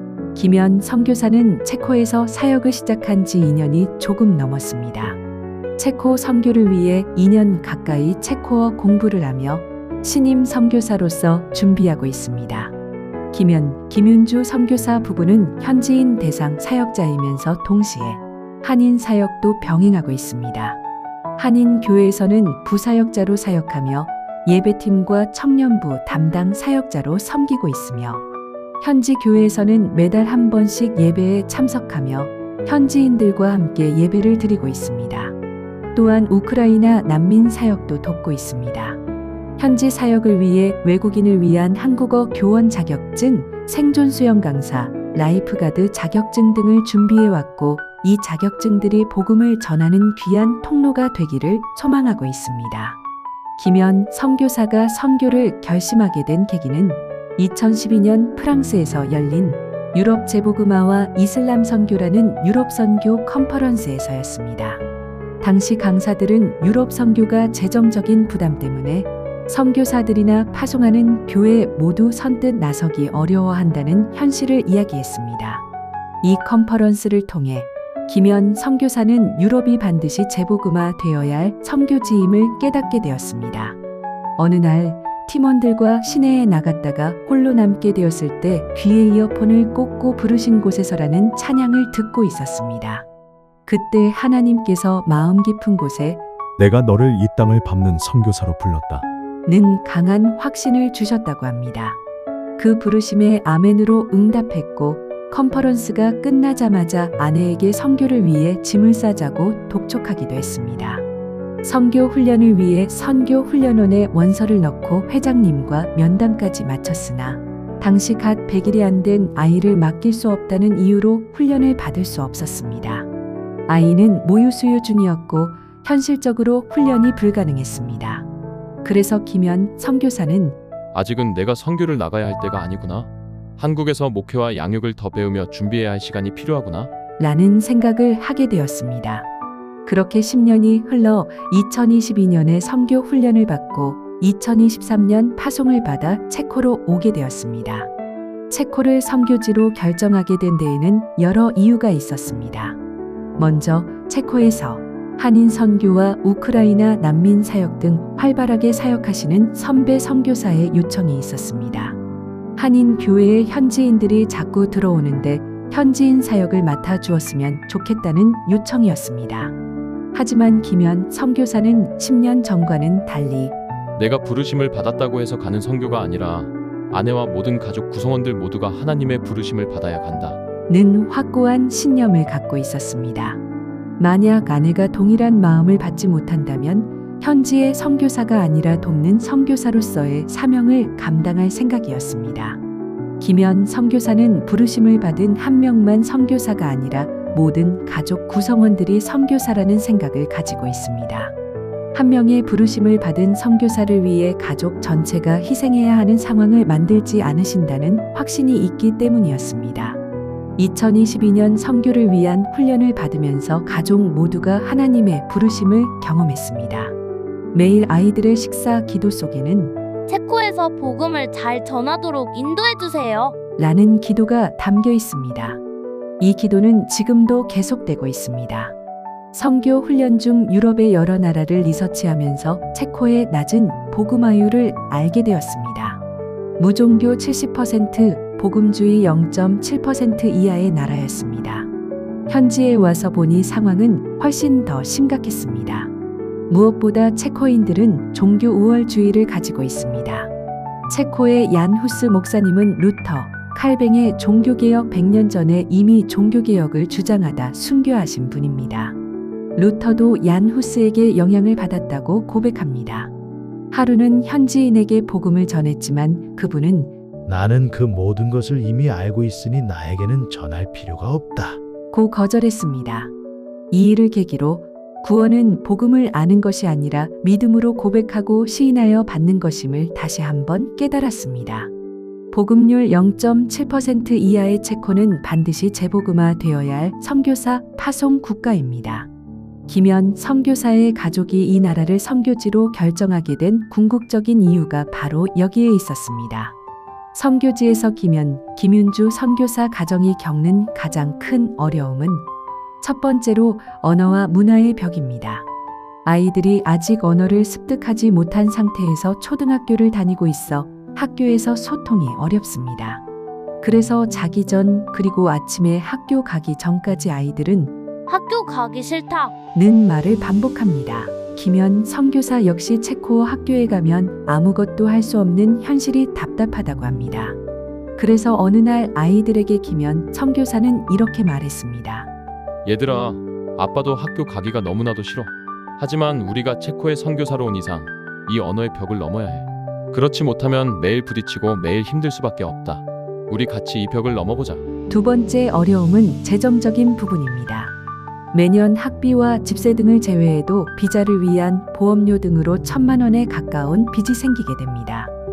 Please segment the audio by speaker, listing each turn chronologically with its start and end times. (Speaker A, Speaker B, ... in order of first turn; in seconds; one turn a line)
Speaker A: 0.3-5.2
Speaker A: 5.8-12.7
Speaker A: 13.3-20.8
Speaker A: 21.4-28.2
Speaker A: 28.8-35.4
Speaker A: 36.0-39.0
Speaker A: 39.6-53.0
Speaker A: 53.6-64.8
Speaker A: 65.4-75.7
Speaker A: 76.2-83.8
Speaker A: 84.4-93.1
Speaker A: 93.7-96.2
Speaker B: 96.6-99.1
Speaker A: 99.5-102.0
Speaker A: 102.6-111.0
Speaker A: 111.6-123.1
Speaker A: 123.7-128.3
Speaker A: 128.8-130.6
Speaker C: 130.9-136.9
Speaker A: 137.2-139.3
Speaker A: 139.9-147.9
Speaker A: 148.5-152.8
Speaker A: 153.4-162.0
Speaker A: 162.6-169.6
Speaker A: 170.1-173.6
Speaker C: 174.0-180.4
Speaker A: 180.7-183.4
Speaker A: 184.0-192.6
Speaker A: 193.2-201.3
Speaker A: 201.9-210.0
Speaker A: 210.6-216.9
Speaker A: 217.5-219.8
Speaker D: 220.1-223.3
Speaker A: 223.6-225.6
Speaker A: 226.2-228.8
Speaker A: 229.3-236.0
Speaker A: 236.6-241.7
Speaker A: 242.3-245.9
Speaker A: 246.5-250.3
Speaker A: 250.9-259.0
Speaker A: 259.6-263.1
Speaker A: 263.7-266.9
Speaker E: 267.3-271.6
Speaker A: 271.9-273.1
Speaker A: 273.7-281.7
Speaker A: 282.3-289.1
Speaker A: 289.7-296.6
Speaker A: 297.1-302.3
Speaker A: 302.8-305.5
Speaker A: 306.1-313.0
Speaker A: 313.6-317.8
Speaker D: 318.1-319.3
Speaker A: 319.5-327.4
Speaker A: 328.0-332.1
Speaker C: 332.6-344.7
Speaker A: 344.9-347.7
Speaker A: 348.3-355.1